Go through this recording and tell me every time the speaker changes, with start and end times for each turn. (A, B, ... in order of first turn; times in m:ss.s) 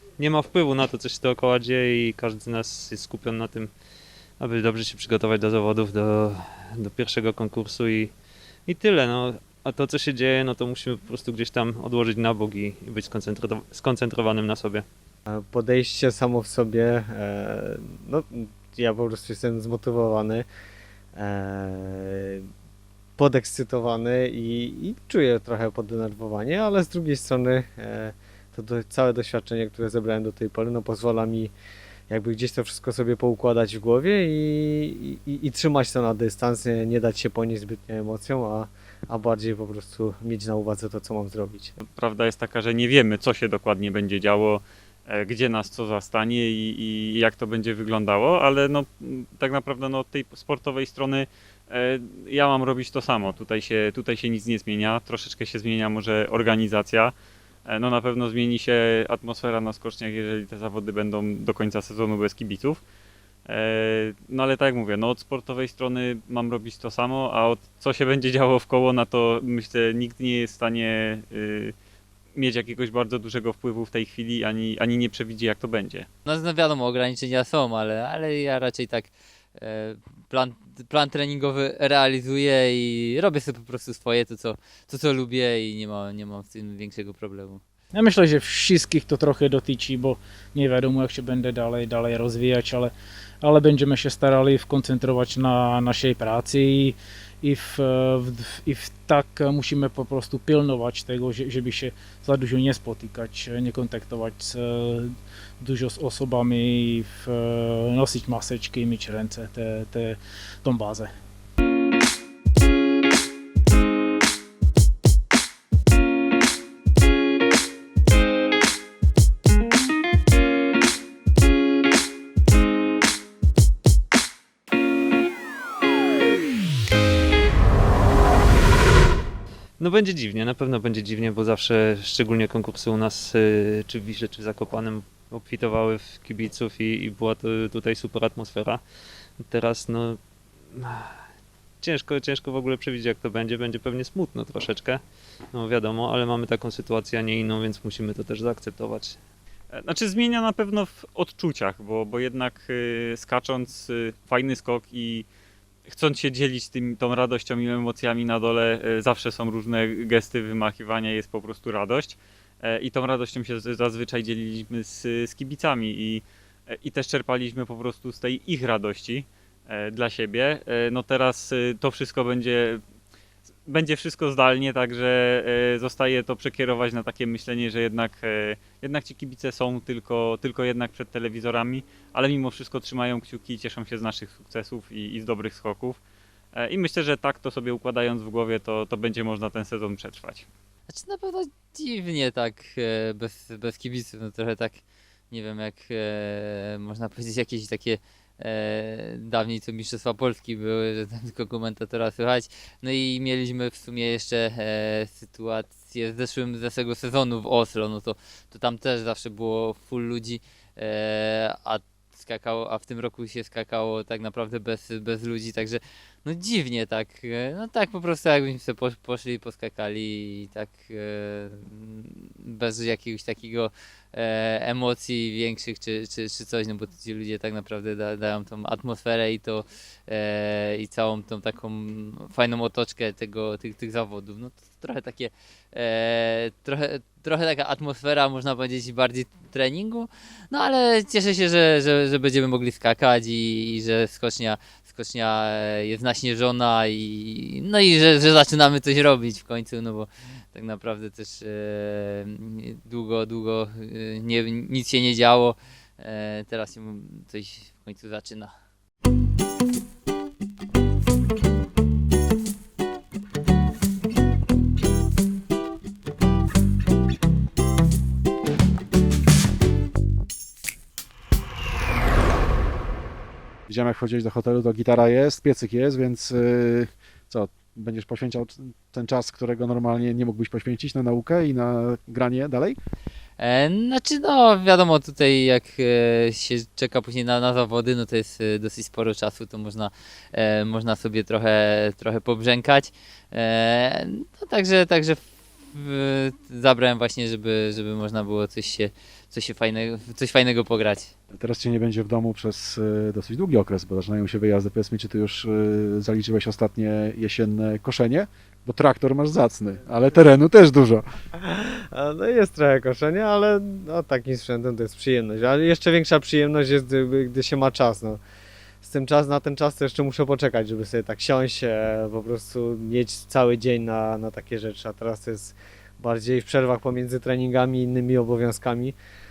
0:00.2-0:03.7 A
0:04.4-0:08.1 A
0:08.7-0:14.8 A
0:15.3-0:20.5 B
0:21.2-0:22.5 B
0:23.2-0:31.5 B
0:32.1-0:41.7 B
0:42.0-0:57.2 C
0:57.7-1:02.8 C
1:03.5-1:11.8 C
1:12.4-1:16.1 C
1:16.3-1:27.6 D
1:27.9-1:32.9 E
1:33.4-1:51.1 E
2:09.8-2:18.8 A
2:19.4-2:20.2 A
2:20.7-2:21.2 A
2:21.8-2:25.0 A
2:25.5-2:29.2 A
2:29.7-2:35.3 C
2:35.9-2:52.8 C
2:53.7-3:06.0 C
3:06.6-3:10.5 C
3:10.9-4:18.5 D
4:33.7-4:42.8 F
4:43.4-5:01.1 D
5:01.3-5:11.1 F
5:11.4-5:18.2 B
5:18.8-5:29.0 B